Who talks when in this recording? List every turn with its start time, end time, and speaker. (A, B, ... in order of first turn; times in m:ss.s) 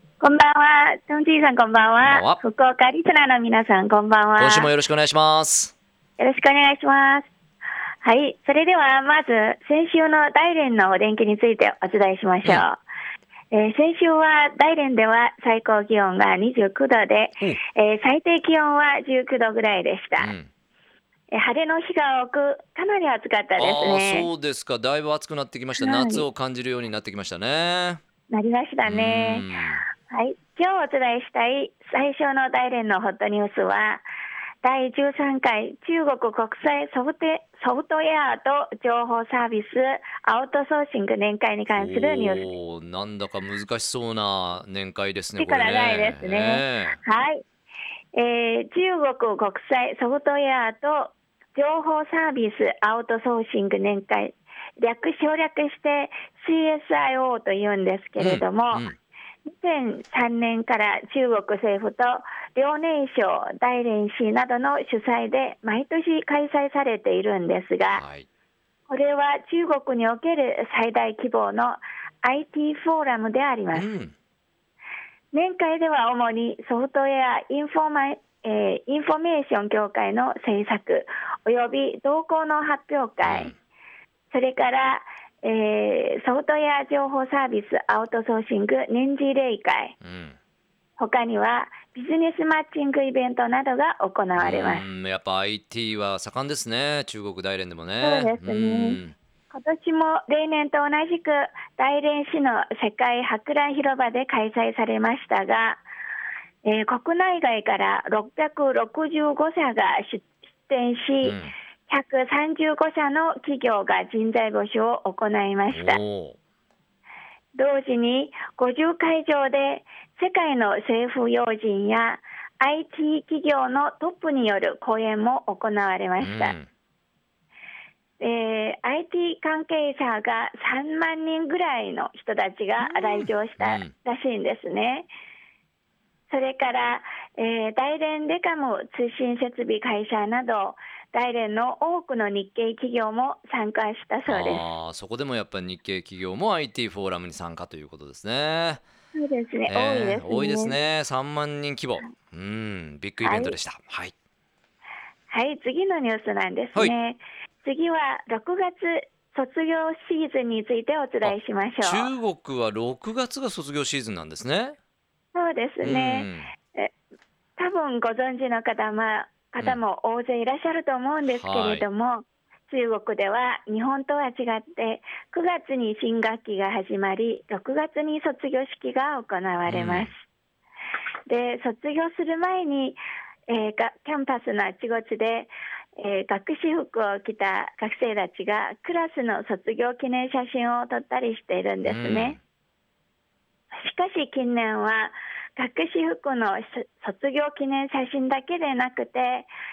0:00.2-0:04.7 A
0:02.0-0:02.4 B
0:04.4-0:05.7 B
0:06.2-0:07.3 A
0:08.0-0:12.8 A
0:13.5-0:20.3 A
0:20.2-0:20.5 B
0:21.3-0:24.3 A
0:23.6-0:28.0 B
0:25.8-0:26.2 A
0:28.3-0:34.0 A
0:28.8-0:29.8 B
0:34.6-0:42.5 A
0:41.7-0:47.0 B
0:45.4-0:47.4 A
0:48.1-0:58.9 A
0:58.2-0:59.0 B
0:59.4-1:08.0 A
1:07.9-1:08.3 B
1:08.9-1:13.9 A
1:13.7-1:14.1 B
1:15.3-1:23.5 A
1:23.2-1:23.5 B
1:24.3-1:30.0 A
1:30.0-1:30.4 B
1:31.0-1:34.8 A
1:34.3-1:39.1 B
1:38.0-1:45.8 A
1:46.6-1:56.0 A
1:51.2-1:51.5 B
1:55.7-1:56.4 B
1:57.5-2:06.5 A
2:06.2-2:06.7 B
2:08.2-2:15.1 A
2:12.8-2:13.9 B
2:16.3-2:24.6 A
2:24.2-2:28.8 B
2:29.1-2:30.8 A
2:29.7-2:34.1 B
2:33.2-2:33.5 A
2:35.3-2:42.1 A
2:41.2-2:44.8 B
2:45.3-2:46.9 A
2:45.8-2:46.5 B
2:47.6-3:00.2 A
2:51.3-2:51.8 B
2:59.6-3:00.1 B
3:01.3-3:12.4 A
3:11.8-3:12.4 B
3:13.8-3:19.5 A